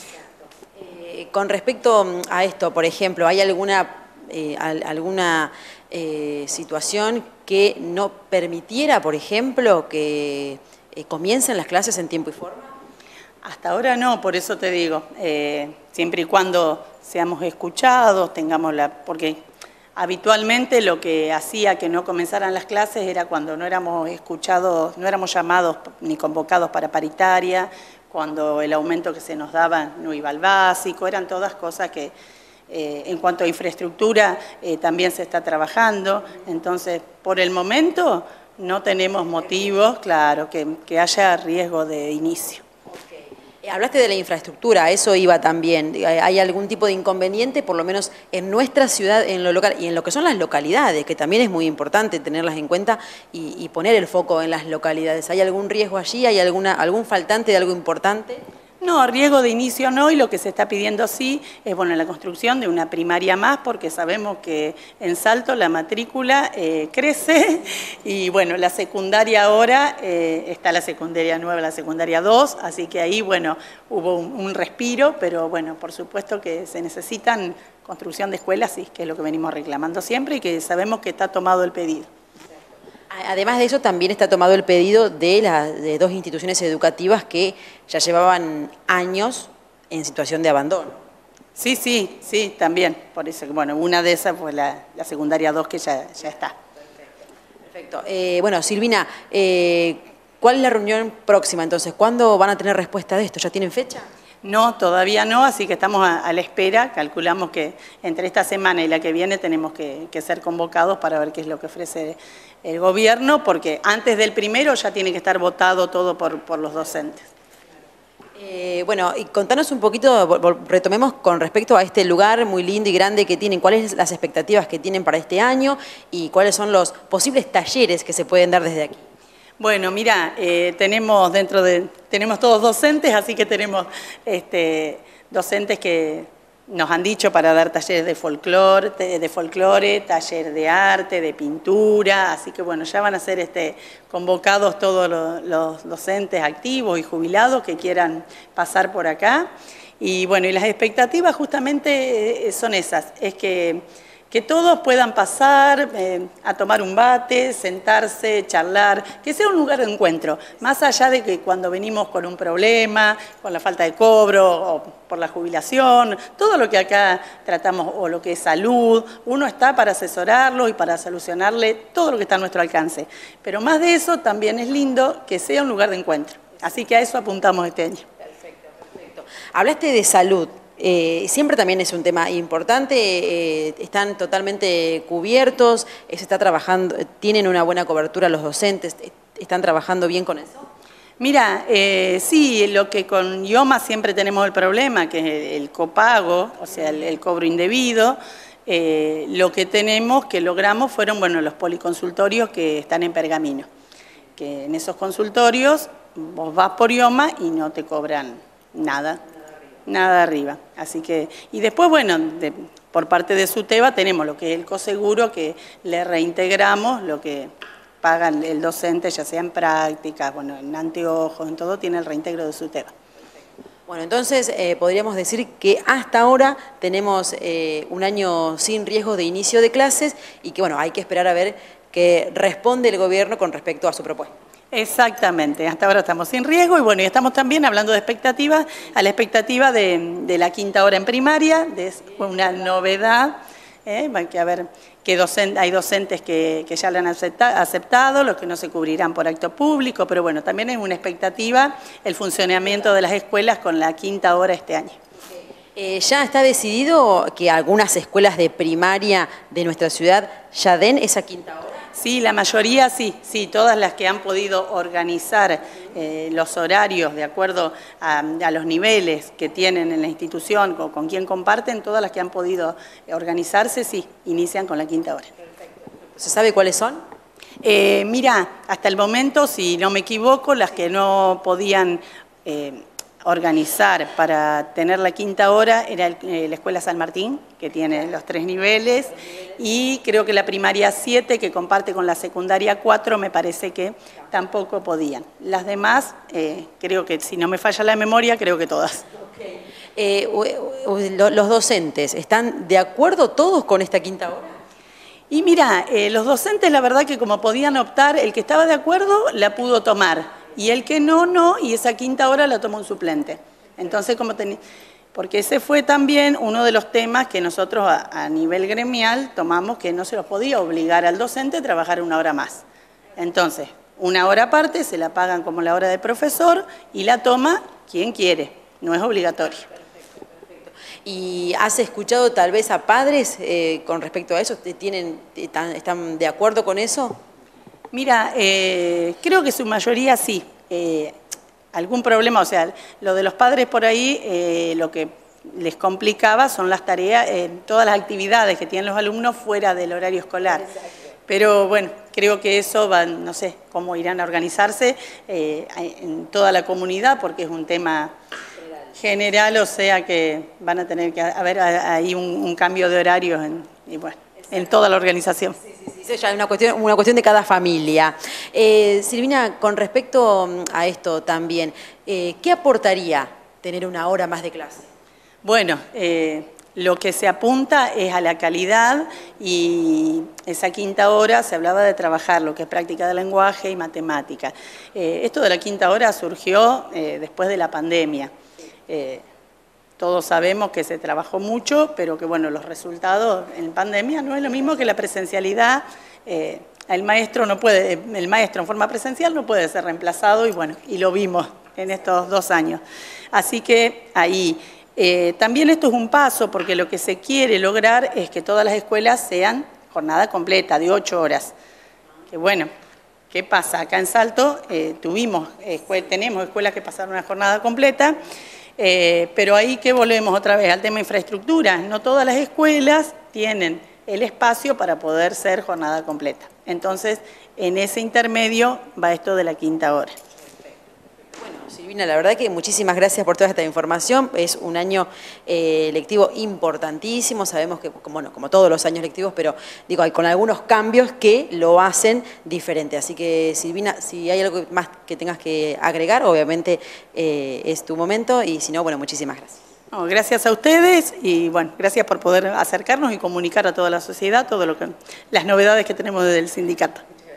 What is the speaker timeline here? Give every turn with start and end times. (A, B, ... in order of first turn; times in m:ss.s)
0:00.8-0:12.7 A
0:13.4-0:19.4 B
0:20.0-0:32.1 B
0:32.7-0:42.6 B
0:43.6-0:58.4 A
0:58.8-1:22.1 B
1:23.1-1:31.0 A
1:31.6-1:36.5 B
1:37.7-1:44.0 A
1:44.4-1:57.3 B
1:58.4-2:09.0 A
2:09.6-2:29.5 B
2:30.0-2:58.0 B
2:58.9-3:10.7 A
3:11.2-3:23.7 B
3:24.4-3:29.2 B
3:29.8-3:37.5 B
3:38.0-3:42.9 B
3:43.9-3:54.3 A
3:54.7-4:15.0 B
4:15.7-4:21.8 A
4:21.9-4:35.3 B
4:36.2-4:37.0 A
4:37.6-4:59.1 B
5:00.0-5:04.6 A
5:05.3-5:14.6 B
5:15.1-5:22.6 B
5:23.2-5:29.6 B
5:31.0-5:37.2 A
5:37.9-5:41.1 B
5:41.7-5:50.7 B
5:51.3-5:58.1 B
5:58.9-6:05.6 B
6:05.9-6:14.9 A
6:15.4-6:28.3 B
6:28.9-6:29.2 B
6:30.0-6:51.5 B
6:52.3-6:52.7 B
6:53.3-6:58.2 B
6:58.8-7:10.1 B
7:11.4-7:29.6 A
7:29.9-7:37.0 B